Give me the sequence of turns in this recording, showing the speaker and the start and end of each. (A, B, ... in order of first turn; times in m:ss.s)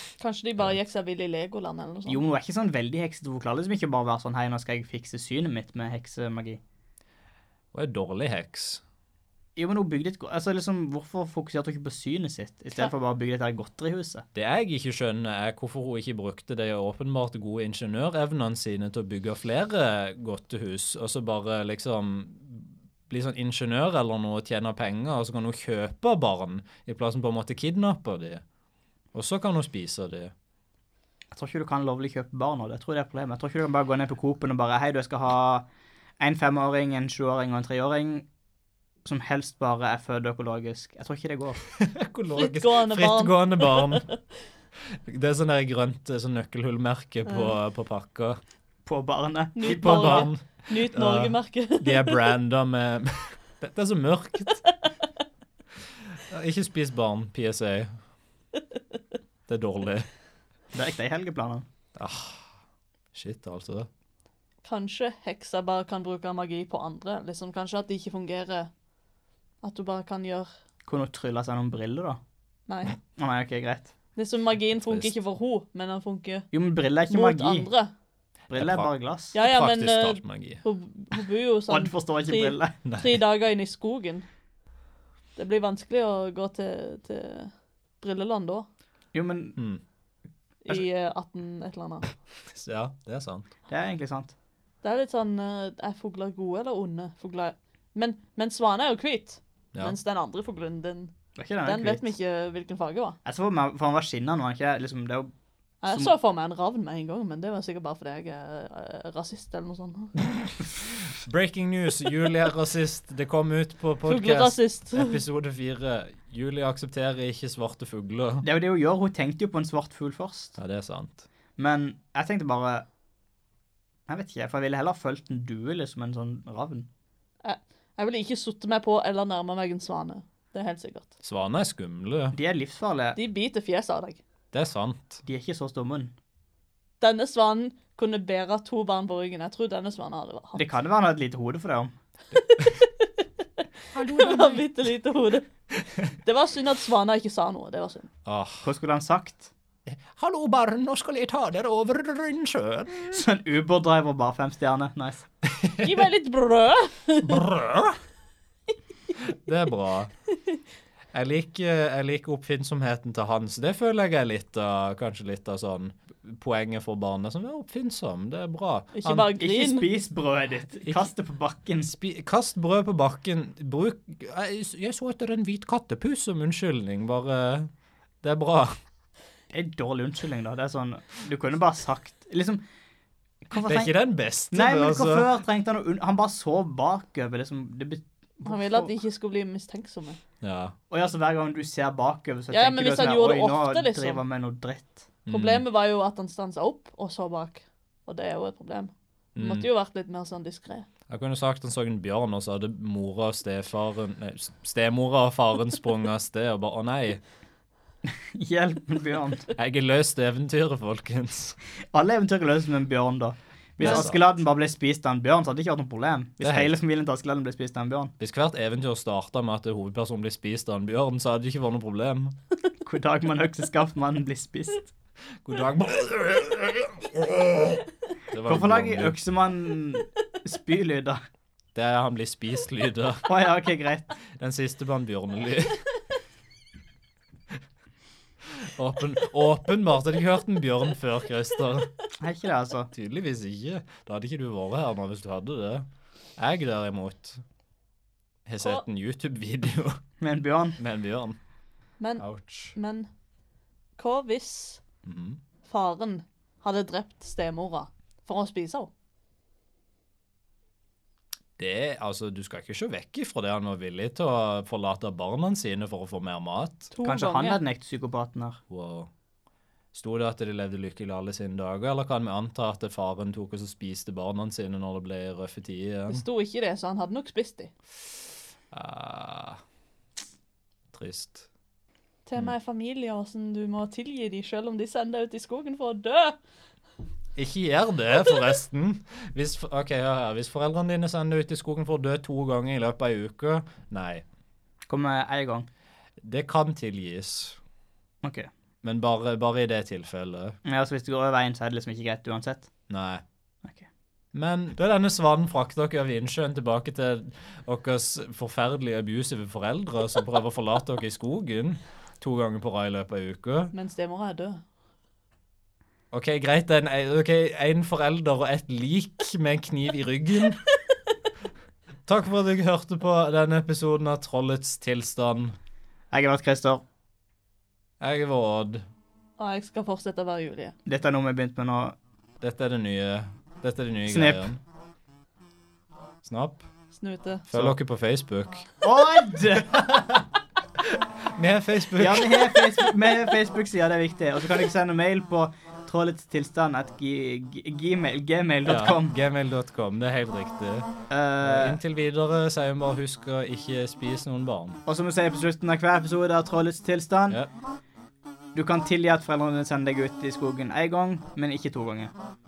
0:00.2-0:02.2 A
0:02.1-0:06.6 B
0:07.7-0:08.8 C
0:09.6-0:14.2 B
0:14.3-0:28.4 C
0:29.1-0:30.3 C
0:31.3-0:35.6 B
0:36.2-0:38.3 B
0:39.0-0:41.6 B
0:41.8-0:44.0 C
0:42.4-0:44.1 A
0:45.1-0:48.4 C
0:48.8-0:50.3 B
0:49.6-0:52.2 A
0:49.6-0:54.6 C
0:56.2-0:58.0 C
0:59.5-1:00.1 C
1:00.7-1:01.6 B
1:02.0-1:02.4 C
1:03.1-1:03.9 C
1:04.6-1:08.7 A
1:09.6-1:10.5 A
1:10.8-1:12.2 B
1:12.7-1:13.0 A
1:13.2-1:13.9 B
1:14.2-1:16.5 A
1:14.8-1:15.1 C
1:16.5-1:17.7 B
1:17.1-1:17.9 A
1:18.5-1:19.3 B
1:18.5-1:20.6 C
1:19.3-1:24.3 A
1:21.7-1:22.7 B
1:22.8-1:23.2 C
1:25.4-1:28.6 A
1:29.1-1:29.6 B
1:29.6-1:29.8 C
1:30.6-1:32.1 A
1:32.5-1:33.5 C
1:33.7-1:34.3 B
1:34.8-1:41.1 A
1:41.4-1:42.1 B
1:41.6-1:43.2 A
1:43.2-1:45.3 B
1:45.8-1:50.1 A
1:45.9-1:46.1 B
1:51.1-1:58.4 C
1:54.0-1:55.2 A
1:58.4-2:00.6 B
2:00.6-2:01.3 C
2:01.6-2:02.8 B
2:04.1-2:06.9 B
2:07.4-2:11.1 A
2:11.2-2:12.4 C
2:12.3-2:13.2 B
2:13.2-2:14.2 A
2:14.5-2:15.2 C
2:15.2-2:16.1 B
2:17.0-2:20.6 A
2:20.6-2:21.9 B
2:22.3-2:23.2 A
2:24.0-2:25.5 A
2:26.1-2:28.1 A
2:28.2-2:28.7 C
2:28.6-2:29.5 B
2:29.9-2:33.2 C
2:33.1-2:35.2 B
2:35.4-2:36.0 C
2:35.8-2:37.5 A
2:37.2-2:38.0 C
2:39.2-2:40.1 C
2:41.1-2:49.2 C
2:48.9-2:49.9 A
2:49.3-2:51.9 B
2:50.8-2:51.1 C
2:51.8-2:57.7 C
2:58.2-2:58.8 C
2:59.5-3:02.6 B
3:03.4-3:03.9 B
3:03.6-3:05.3 C
3:04.5-3:08.9 B
3:08.4-3:10.2 A
3:10.4-3:10.7 C
3:10.9-3:15.1 B
3:12.5-3:14.2 A
3:15.2-3:15.6 C
3:15.3-3:20.9 A
3:19.4-3:19.7 C
3:21.1-3:27.2 C
3:28.0-3:29.4 B
3:29.5-3:31.6 C
3:31.9-3:38.1 B
3:33.8-3:34.2 C
3:36.4-3:36.8 C
3:38.2-3:42.4 C
3:42.8-3:44.9 B
3:45.4-3:49.2 C
3:48.4-3:51.2 B
3:51.7-3:53.3 C
3:53.3-3:54.1 B
3:54.3-3:55.8 C
3:58.5-4:01.9 C
4:02.2-4:02.9 B
4:02.9-4:07.4 C
4:08.4-4:10.0 C
4:10.2-4:10.8 B
4:10.8-4:11.4 C
4:12.0-4:13.1 A
4:12.2-4:12.7 C
4:14.0-4:14.8 A
4:15.0-4:15.4 C
4:15.7-4:18.9 A
4:21.6-4:26.9 C
4:26.9-4:27.6 A
4:27.0-4:28.6 B
4:28.7-4:29.1 C
4:29.9-4:36.2 C
4:36.1-4:37.7 A
4:38.7-4:39.6 C
4:40.9-4:41.5 C
4:42.2-4:46.4 A
4:47.4-4:54.2 C
4:54.9-4:55.7 B
4:56.2-4:57.6 C
4:58.2-4:58.5 B
4:58.8-5:00.6 C
5:00.6-5:02.7 B
5:02.9-5:03.2 C
5:04.3-5:13.7 C
5:13.7-5:14.6 A
5:16.1-5:20.6 C
5:22.0-5:25.6 C
5:26.1-5:26.8 B
5:28.0-5:28.8 C
5:29.4-5:30.8 A
5:30.8-5:32.0 B
5:32.4-5:34.6 C
5:34.1-5:34.5 B
5:36.2-5:36.6 C
5:37.0-5:37.4 A
5:37.5-5:38.6 C
5:38.8-5:39.8 B
5:39.7-5:40.2 C
5:40.8-5:42.8 C
5:42.0-5:49.2 B
5:48.6-5:50.9 C
5:51.1-5:51.8 B
5:51.4-5:54.8 C
5:54.8-5:57.4 B
5:58.5-6:02.1 B